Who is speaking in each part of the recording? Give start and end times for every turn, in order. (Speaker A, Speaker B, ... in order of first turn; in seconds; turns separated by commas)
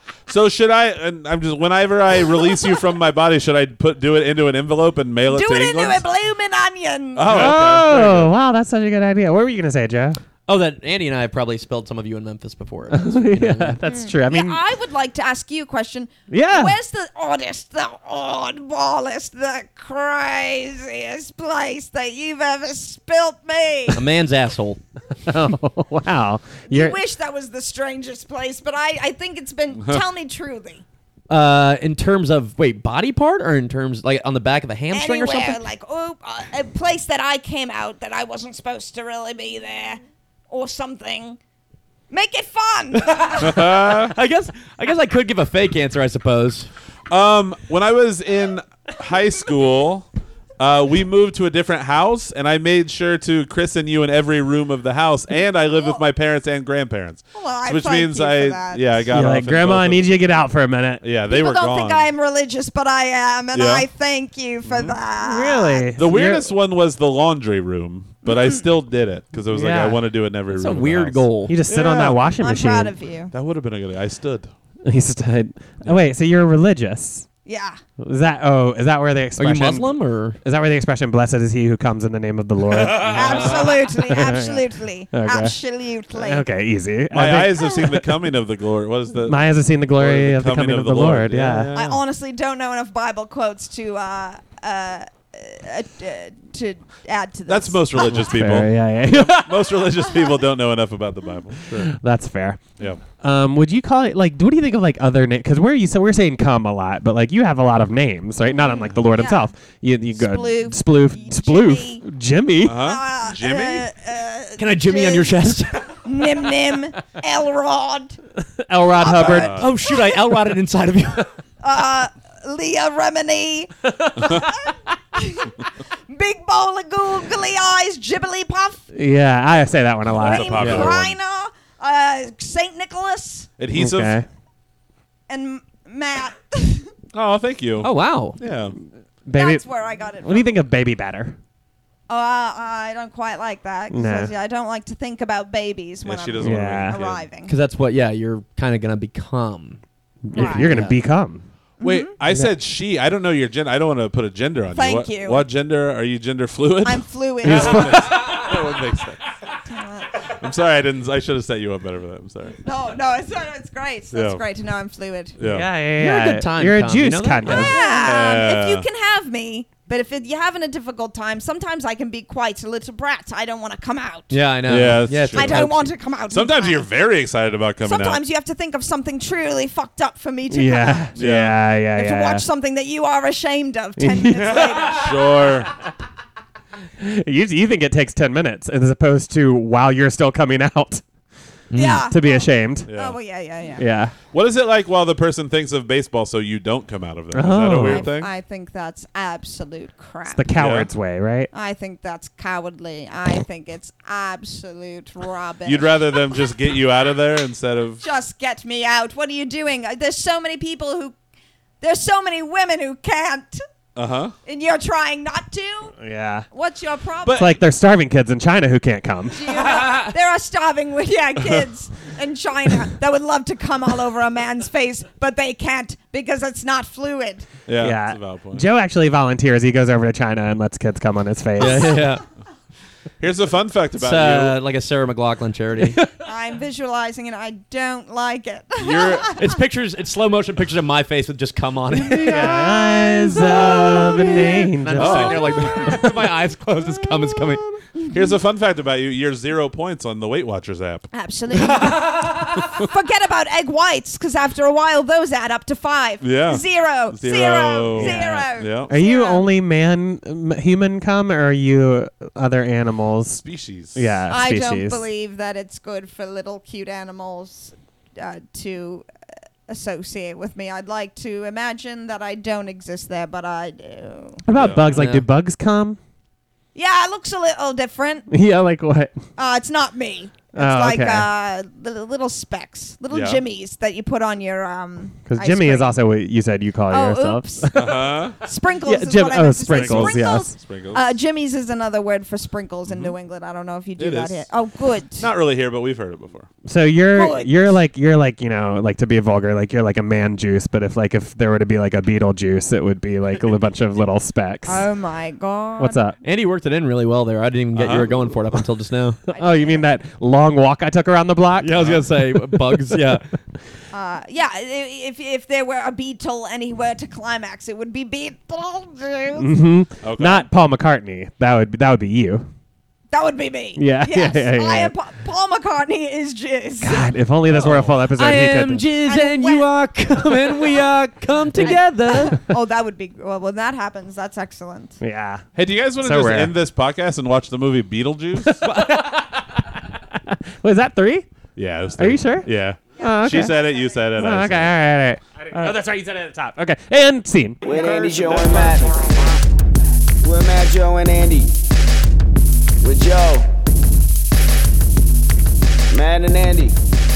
Speaker A: 0.3-6.0, Speaker B: 5.3-7.6, Speaker A: 7.2-8.3, Speaker C: 7.2-10.2, Speaker D: 10.5-13.8, Speaker C: 12.9-14.6, Speaker B: 13.8-24.0, Speaker C: 16.3-16.8, Speaker D: 23.9-24.8, Speaker C: 25.3-27.0, Speaker B: 26.7-30.8, Speaker A: 29.8-30.0, Speaker D: 31.3-35.6, Speaker B: 34.9-41.4, Speaker B: 42.1-43.5, Speaker D: 43.0-46.7, Speaker A: 43.4-44.1, Speaker A: 47.1-60.1, Speaker B: 55.8-56.0, Speaker B: 57.3-59.0, Speaker C: 59.1-61.0, Speaker A: 61.0-62.1, Speaker B: 61.3-65.9, Speaker A: 63.5-63.9, Speaker A: 64.7-65.0, Speaker C: 65.2-66.5, Speaker A: 66.0-72.2, Speaker B: 68.2-68.6, Speaker C: 69.5-70.0, Speaker D: 70.5-71.5, Speaker C: 71.5-73.0, Speaker B: 72.4-73.3, Speaker A: 73.3-74.5, Speaker C: 74.8-77.3, Speaker B: 77.5-77.8, Speaker C: 78.0-85.6, Speaker D: 79.4-80.4, Speaker B: 83.0-86.5, Speaker A: 83.0-83.7, Speaker C: 86.1-88.1, Speaker A: 87.1-92.0, Speaker C: 89.2-91.7, Speaker B: 91.7-98.4, Speaker A: 97.5-101.9, Speaker C: 98.1-99.7, Speaker C: 101.7-102.6, Speaker C: 103.2-112.8, Speaker B: 108.5-109.5, Speaker B: 110.1-112.0, Speaker A: 112.6-113.9, Speaker B: 112.7-115.4, Speaker D: 114.6-116.0, Speaker B: 116.0-118.2, Speaker C: 118.7-119.6, Speaker B: 119.0-120.1, Speaker A: 119.1-119.7, Speaker D: 119.5-121.3, Speaker B: 121.6-128.8, Speaker C: 128.9-130.9, Speaker A: 130.1-131.2, Speaker B: 130.1-133.5, Speaker D: 130.6-130.9, Speaker A: 133.6-134.2, Speaker C: 133.8-134.3, Speaker B: 135.3-136.9, Speaker A: 137.1-138.8, Speaker D: 137.8-138.4, Speaker C: 139.3-139.7, Speaker B: 139.3-140.5, Speaker C: 140.2-141.4, Speaker B: 142.1-147.6, Speaker C: 143.9-144.3, Speaker A: 146.0-147.3, Speaker C: 146.4-147.0, Speaker D: 147.5-149.8, Speaker C: 150.3-151.5, Speaker B: 150.3-150.9, Speaker D: 150.4-151.0, Speaker B: 151.8-152.2, Speaker A: 151.8-159.3, Speaker C: 152.3-152.5, Speaker B: 154.7-155.5, Speaker B: 156.8-158.1, Speaker C: 157.4-158.4, Speaker B: 159.5-160.2, Speaker A: 160.2-162.6, Speaker B: 162.6-165.4, Speaker A: 164.1-164.4, Speaker A: 165.4-165.7, Speaker C: 165.4-168.0, Speaker D: 166.0-167.9, Speaker B: 167.5-174.4, Speaker A: 168.1-168.9, Speaker D: 174.3-175.9, Speaker A: 174.7-175.7, Speaker B: 175.3-176.9, Speaker A: 176.3-178.2, Speaker B: 177.8-181.1, Speaker C: 180.5-182.4, Speaker A: 181.2-181.6, Speaker B: 181.9-185.2, Speaker C: 184.0-184.9, Speaker A: 184.9-185.7, Speaker C: 187.0-191.0, Speaker D: 191.7-192.1, Speaker B: 191.8-193.8, Speaker C: 192.1-192.9, Speaker A: 192.9-193.2, Speaker C: 193.8-194.2, Speaker A: 194.3-198.3, Speaker C: 197.3-198.1, Speaker B: 197.8-200.5, Speaker C: 200.3-201.5, Speaker A: 200.6-200.9, Speaker B: 201.5-206.5, Speaker A: 205.6-208.0, Speaker B: 208.0-211.2, Speaker B: 211.8-213.6, Speaker A: 214.0-214.3, Speaker B: 214.4-215.9, Speaker C: 216.0-216.5, Speaker B: 216.5-217.6, Speaker A: 217.2-217.6, Speaker C: 217.3-219.7, Speaker B: 219.3-227.5, Speaker A: 227.7-228.7, Speaker C: 227.8-232.1, Speaker D: 231.6-232.2, Speaker A: 233.2-234.6, Speaker D: 233.9-236.0, Speaker C: 235.8-236.1, Speaker B: 236.2-239.3, Speaker A: 238.8-239.4, Speaker D: 239.4-247.7, Speaker C: 242.1-246.1, Speaker A: 245.0-246.0, Speaker A: 248.1-251.1, Speaker B: 251.1-259.5, Speaker A: 256.2-259.0, Speaker C: 257.9-263.4, Speaker A: 263.4-264.1, Speaker C: 263.9-265.1, Speaker B: 264.3-269.1, Speaker B: 269.7-274.4, Speaker C: 274.5-276.0, Speaker A: 274.5-275.0, Speaker D: 274.9-275.3, Speaker B: 276.8-278.3, Speaker C: 278.3-279.1, Speaker B: 279.4-286.0, Speaker C: 280.6-281.3, Speaker A: 283.1-283.4, Speaker C: 285.3-288.0, Speaker B: 286.9-287.7, Speaker A: 287.7-288.4, Speaker B: 288.4-295.3, Speaker C: 288.8-290.5, Speaker A: 289.7-291.1, Speaker A: 292.9-293.1, Speaker A: 294.0-294.5, Speaker A: 295.2-296.5, Speaker C: 296.6-304.9, Speaker B: 297.1-297.8, Speaker B: 304.7-306.0, Speaker C: 305.8-306.2, Speaker D: 306.2-309.2, Speaker A: 307.7-308.3, Speaker B: 309.3-309.9, Speaker C: 309.3-311.9, Speaker D: 311.6-313.3, Speaker A: 311.8-312.1, Speaker C: 312.7-313.2, Speaker B: 313.9-319.5, Speaker C: 319.3-322.5, Speaker A: 320.0-320.5, Speaker B: 323.1-327.1, Speaker C: 323.8-324.9, Speaker C: 326.8-328.9, Speaker A: 327.5-328.1, Speaker D: 328.1-332.4, Speaker B: 329.1-329.7, Speaker B: 330.5-330.8, Speaker B: 331.6-335.0, Speaker C: 335.0-335.4, Speaker A: 335.6-338.6, Speaker C: 336.0-336.6, Speaker C: 338.4-341.3, Speaker D: 338.6-339.0, Speaker A: 341.6-344.8, Speaker C: 342.0-343.6, Speaker B: 343.0-343.8, Speaker C: 344.2-347.6, Speaker E: 347.6-349.4, Speaker A: 347.6-348.9, Speaker E: 350.2-351.5, Speaker E: 352.8-353.5, Speaker E: 355.9-356.8